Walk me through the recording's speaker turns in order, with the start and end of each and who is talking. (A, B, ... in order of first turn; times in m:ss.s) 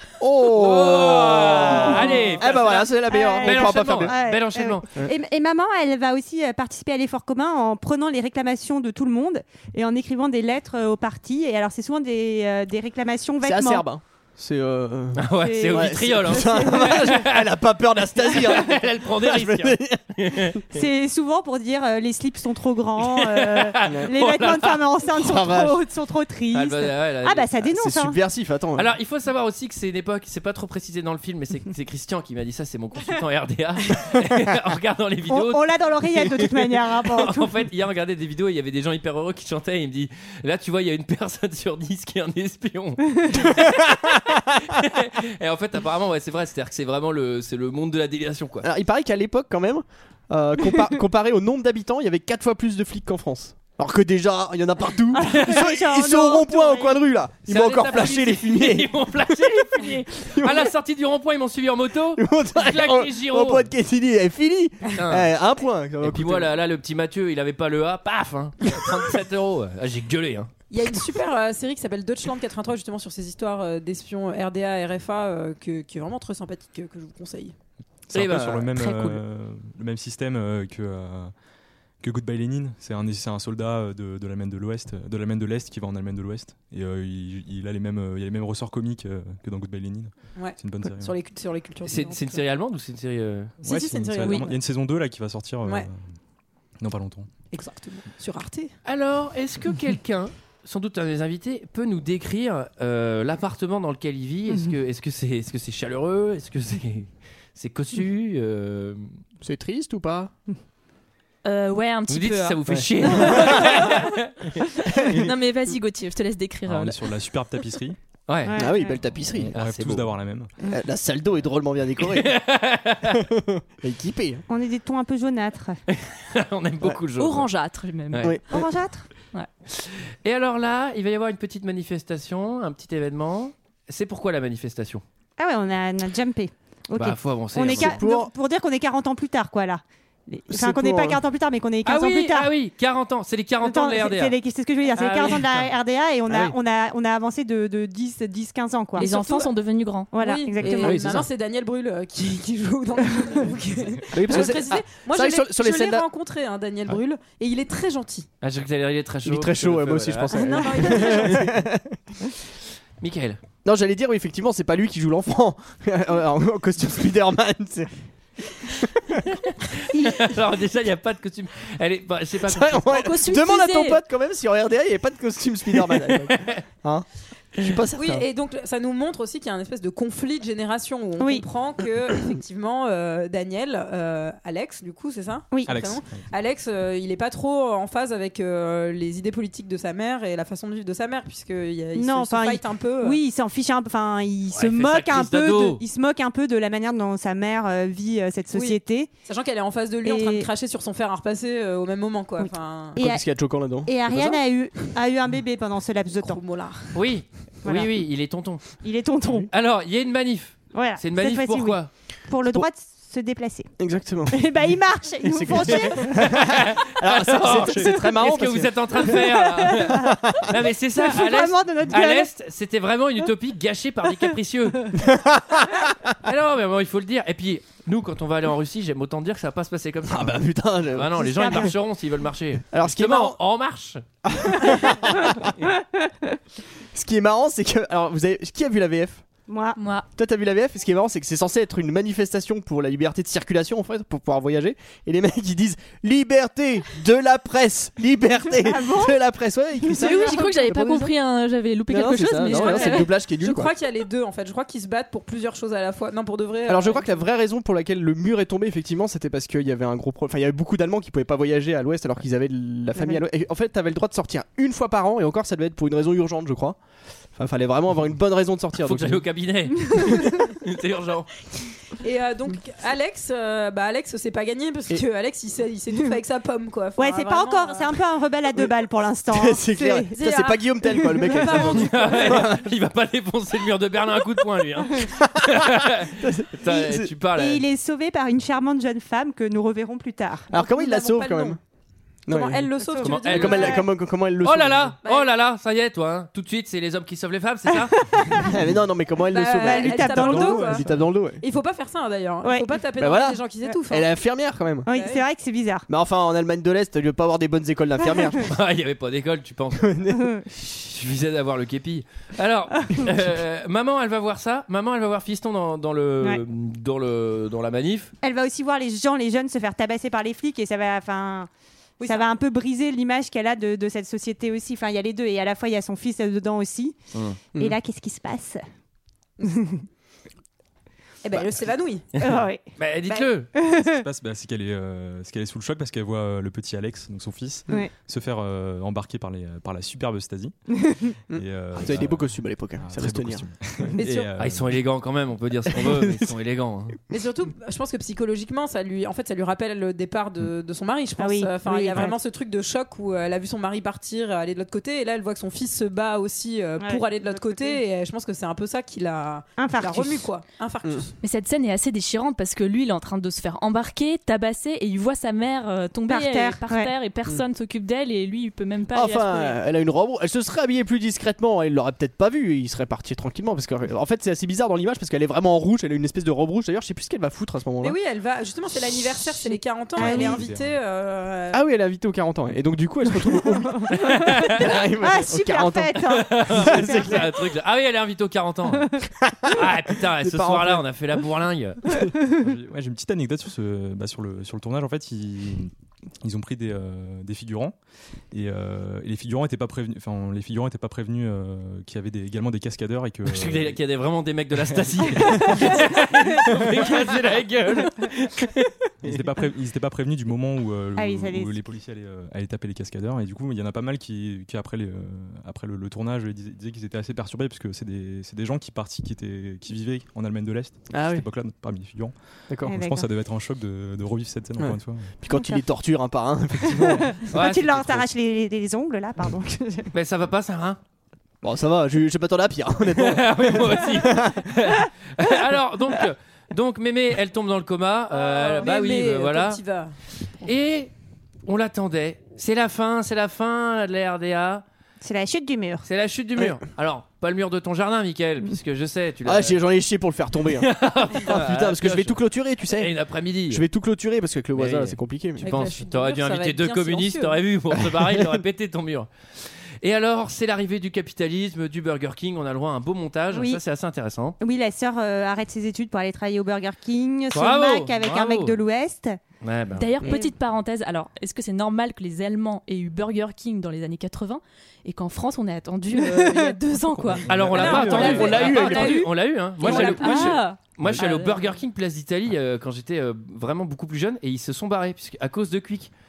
0:00.2-0:04.2 A
0:00.5-0:04.9 B
0:01.7-0:02.4 C
0:03.1-0:13.8 C
0:13.4-0:20.6 A
0:15.2-0:17.5 B
0:15.4-0:17.1 C
0:18.1-0:20.8 B
0:20.7-0:28.2 C
0:23.0-0:24.8 B
0:23.8-0:24.1 A
0:25.1-0:25.8 A
0:26.5-0:27.6 B
0:27.7-0:28.9 A
0:28.8-0:48.6 B
0:35.3-0:37.5 C
0:43.4-0:44.0 A
0:48.6-0:59.3 A
0:55.1-0:57.0 C
0:55.2-0:55.6 B
0:57.5-1:03.7 B
1:00.1-1:00.7 A
1:02.2-1:06.5 A
1:04.9-1:05.3 B
1:06.0-1:10.5 B
1:10.7-1:17.6 D
1:18.1-1:21.3 E
1:18.1-1:18.8 B
1:18.2-1:18.8 A
1:22.0-1:31.1 E
1:30.4-1:32.4 D
1:31.8-1:33.6 B
1:33.6-1:36.0 E
1:33.6-1:34.6 D
1:36.8-1:37.3 E
1:37.5-1:38.7 D
1:38.8-1:49.1 B
1:49.4-1:50.3 A
1:51.4-1:54.0 F
1:52.1-1:54.3 B
1:52.7-1:53.7 A
1:54.8-1:57.0 F
1:55.0-1:55.2 A
1:56.7-1:58.0 E
1:58.3-1:58.6 B
1:58.4-1:59.0 C
1:58.5-1:59.6 A
1:59.3-2:00.5 E
1:59.5-2:00.0 B
2:00.6-2:02.4 A
2:02.0-2:03.2 B
2:03.1-2:04.4 A
2:04.5-2:05.8 C
2:05.9-2:07.5 B
2:07.2-2:08.4 F
2:08.1-2:08.4 B
2:08.2-2:08.7 A
2:08.5-2:09.0 C
2:09.7-2:15.0 B
2:15.4-2:22.5 C
2:17.0-2:18.0 B
2:17.7-2:18.3 A
2:20.5-2:21.2 A
2:21.8-2:24.4 B
2:23.6-2:29.1 C
2:24.9-2:25.7 B
2:26.3-2:26.5 A
2:29.0-2:29.5 D
2:29.0-2:30.2 F
2:30.1-2:31.2 C
2:30.2-2:38.3 D
2:30.6-2:31.3 A
2:34.1-2:36.1 A
2:38.4-2:41.4 B
2:39.2-2:42.0 A
2:40.3-2:41.5 D
2:43.0-2:43.4 B
2:43.6-2:47.9 A
2:48.7-2:49.2 A
2:49.3-2:52.9 B
2:52.5-2:58.3 A
2:52.9-2:54.0 F
2:56.1-2:56.6 B
2:57.9-3:13.2 D
3:05.5-3:05.9 C
3:05.6-3:06.2 E
3:12.0-3:19.1 C
3:14.5-3:15.8 B
3:18.5-3:23.0 D
3:20.0-3:20.5 C
3:22.4-3:23.2 C
3:23.0-3:24.4 A
3:23.8-3:26.4 C
3:26.1-3:26.9 D
3:26.9-3:28.8 B
3:27.6-3:27.9 C
3:28.8-3:29.5 C
3:29.5-3:31.9 B
3:30.7-3:33.7 C
3:33.8-3:34.5 A
3:34.3-3:36.3 C
3:35.2-3:40.5 A
3:35.8-3:45.1 B
3:37.6-3:37.9 C
3:39.0-3:40.2 C
3:41.0-3:42.3 C
3:45.0-3:45.8 A
3:46.2-3:54.0 B
3:50.1-3:51.7 A
3:51.2-3:51.7 C
3:52.7-3:53.4 A
3:54.2-3:55.5 A
3:54.7-3:54.9 C
3:56.9-3:59.2 A
3:59.5-3:59.8 C
3:59.8-4:00.1 F
4:00.2-4:11.1 A
4:08.6-4:09.2 C
4:09.9-4:13.1 F
4:10.0-4:10.4 C
4:11.9-4:13.7 A
4:12.5-4:17.2 D
4:16.7-4:26.8 A
4:23.0-4:23.2 C
4:27.4-4:29.2 A
4:28.8-4:31.3 B
4:29.9-4:30.4 C
4:32.0-4:37.9 D
4:37.0-4:41.2 C
4:39.3-4:42.7 A
4:40.1-4:42.4 D
4:41.5-4:47.6 B
4:45.1-4:47.1 A
4:47.4-4:50.5 C
4:50.5-4:51.6 A
4:50.5-4:51.6 D
4:52.3-4:55.0 A
4:52.3-4:53.9 D
4:52.8-4:53.7 C
4:53.0-4:53.8 B
4:54.4-4:58.0 B
4:55.0-4:55.3 D
4:58.0-4:58.5 C
4:58.4-5:01.4 A
4:59.3-5:00.8 D
4:59.5-5:00.8 C
5:01.4-5:04.1 D
5:02.4-5:02.8 C
5:03.0-5:04.9 A
5:04.8-5:05.9 C
5:04.9-5:05.2 D
5:05.9-5:08.5 A
5:08.4-5:09.9 B
5:09.8-5:10.4 A
5:10.2-5:10.4 C
5:10.6-5:18.1 B
5:18.2-5:21.5 C
5:22.0-5:22.3 D
5:22.0-5:27.0 C
5:27.1-5:27.4 B
5:27.6-5:28.6 C
5:29.4-5:29.8 C
5:31.2-5:32.1 D
5:32.1-5:33.5 B
5:32.2-5:34.0 C
5:33.8-5:40.6 E
5:41.3-5:43.4 A
5:41.3-5:44.9 E
5:44.1-5:47.0 B
5:45.8-5:46.1 A
5:47.1-6:01.1 D
5:51.2-5:52.2 C
5:56.8-5:57.8 C
5:59.6-6:00.3 C
6:01.2-6:09.6 F
6:06.1-6:06.9 C
6:08.9-6:18.0 A
6:17.8-6:21.6 D
6:20.0-6:20.5 C
6:20.3-6:20.7 E
6:21.5-6:27.3 A
6:23.2-6:27.4 C
6:23.9-6:24.6 B
6:26.0-6:28.9 B
6:29.2-6:30.9 A
6:29.5-6:31.8 B
6:31.9-6:32.1 A
6:32.4-6:37.7 E
6:38.3-6:43.8 E
6:43.3-6:49.2 B
6:45.3-6:45.7 E
6:49.0-7:05.1 E
6:51.0-6:51.6 C
7:00.9-7:01.2 A
7:02.5-7:02.7 A
7:02.7-7:03.1 C
7:04.6-7:07.2 A
7:05.3-7:05.6 C
7:06.7-7:09.9 C
7:07.3-7:08.0 B
7:09.9-7:10.8 B
7:11.4-7:14.5 A
7:12.9-7:19.6 B
7:18.1-7:19.9 D
7:20.2-7:20.9 B
7:21.4-7:24.6 B
7:25.0-7:25.9 C
7:25.8-7:29.6 B
7:29.2-7:33.0 A
7:30.6-7:33.6 B
7:33.5-7:35.5 A
7:34.6-7:44.4 B
7:35.4-7:37.4 D
7:37.9-7:38.4 A
7:43.3-7:43.6 C
7:44.4-7:49.2 C
7:47.3-7:48.6 B
7:49.4-7:49.9 B
7:49.8-7:58.0 F
7:50.0-7:50.3 C
7:57.3-8:05.9 B
7:57.3-7:59.1 A
7:57.6-7:59.0 D
7:59.6-8:01.3 F
7:59.6-8:00.4 D
8:00.0-8:00.3 C